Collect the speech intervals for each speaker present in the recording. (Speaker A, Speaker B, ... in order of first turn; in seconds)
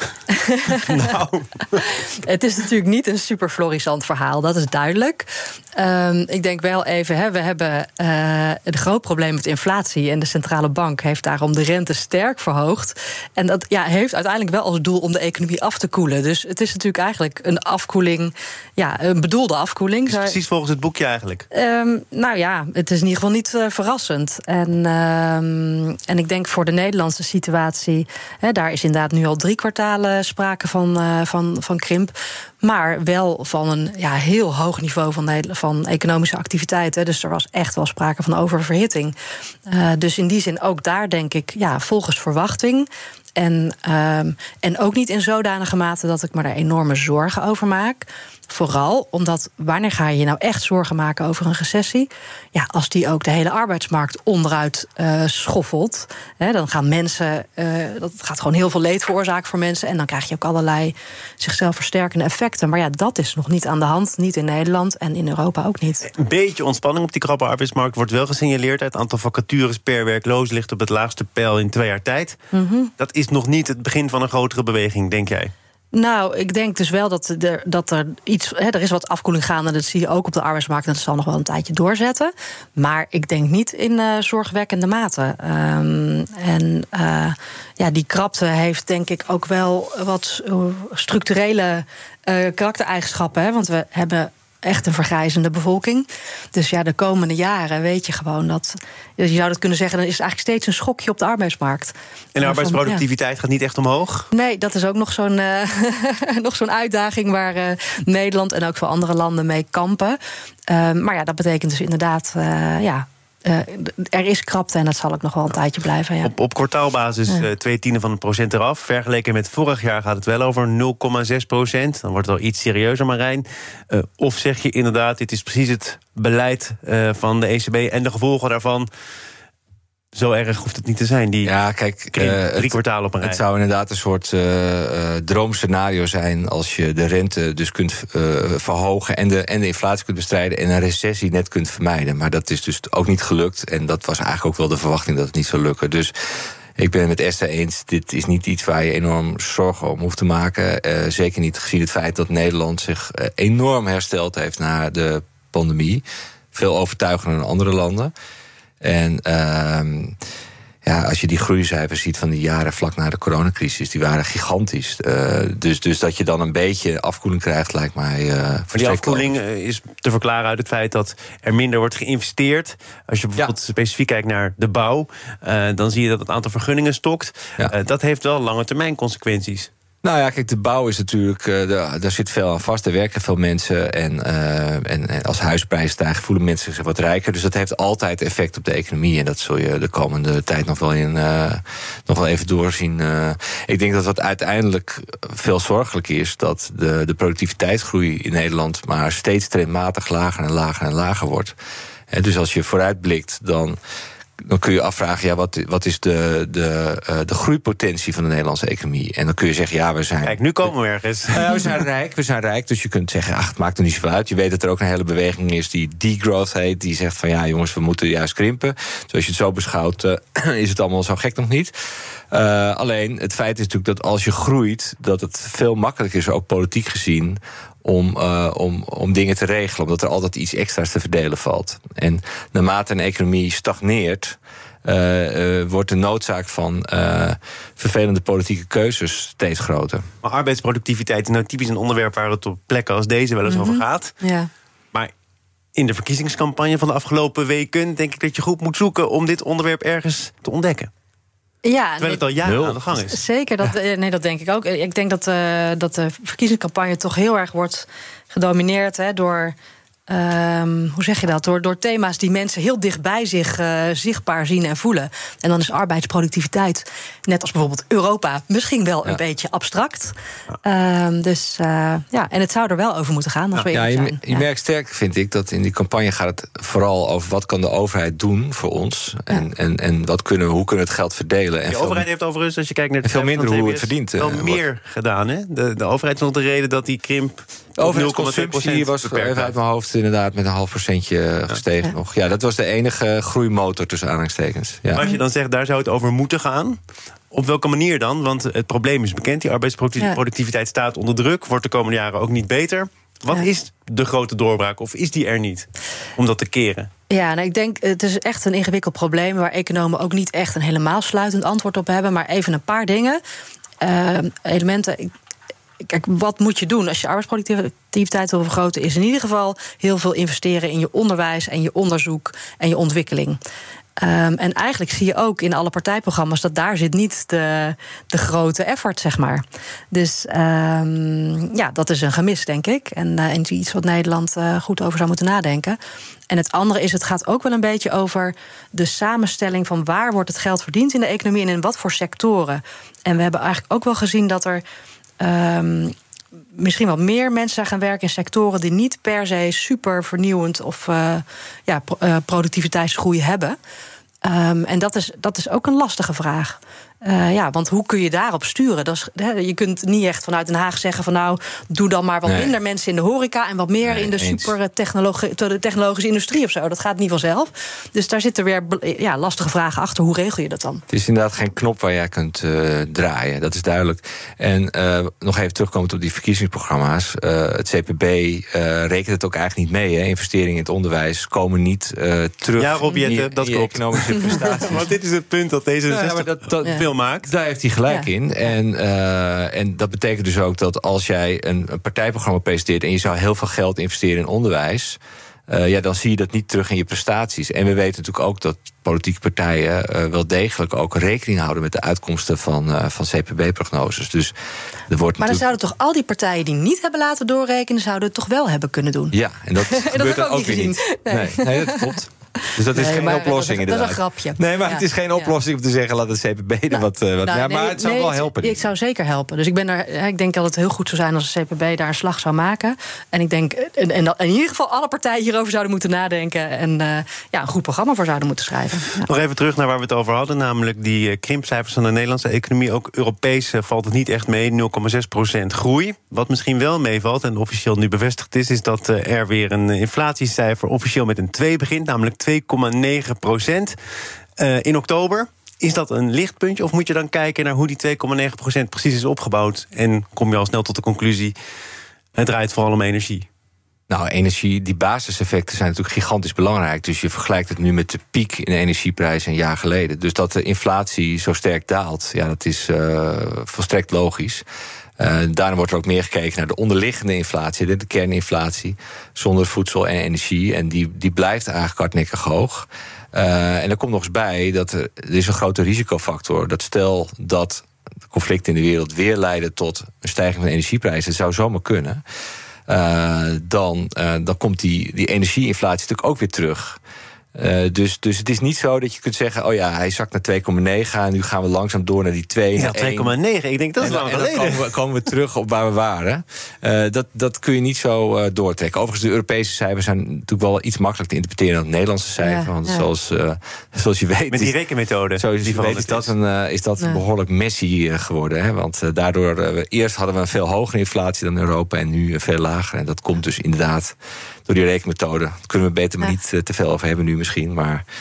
Speaker A: 0.3-1.1, 1.8-20.4, 21.5-39.1, 39.7-66.1, 72.5-72.9, 75.9-103.0, 104.3-116.3, 243.5-244.5, 251.6-252.3, 253.1-259.6, 260.1-270.1, 270.6-274.4, 307.1-313.2, 313.8-315.1, 315.8-323.4, 324.0-335.8, 336.3-344.6, 345.2-345.9, 346.6-353.6, 354.2-370.8, 405.2-415.3, 416.7-429.1, 502.2-502.9
Speaker B: 0.8-1.9, 20.1-21.5, 66.2-72.4, 73.0-75.5, 102.3-104.3, 116.2-128.9, 130.2-131.5, 132.1-133.4, 168.7-179.7, 210.2-211.6, 240.2-244.2, 245.8-250.9, 252.0-253.2, 281.7-289.5, 294.9-296.8, 297.3-306.9, 382.6-387.3, 429.0-443.8, 444.4-451.4, 452.2-453.3, 492.6-494.7, 504.3-506.1
Speaker C: 131.4-146.1, 146.8-158.1, 158.8-160.2, 160.8-169.3, 180.0-201.6, 202.1-203.8, 204.4-210.7, 211.3-221.7, 222.3-240.1, 252.4-252.9, 273.7-282.1, 283.0-284.6, 287.8-295.1, 362.3-362.5, 363.9-364.5, 370.9-384.9, 385.9-404.3, 404.9-405.5, 409.1-418.7, 453.9-464.4, 465.0-482.0, 482.7-486.8, 487.4-493.1, 493.8-504.6, 505.2-517.9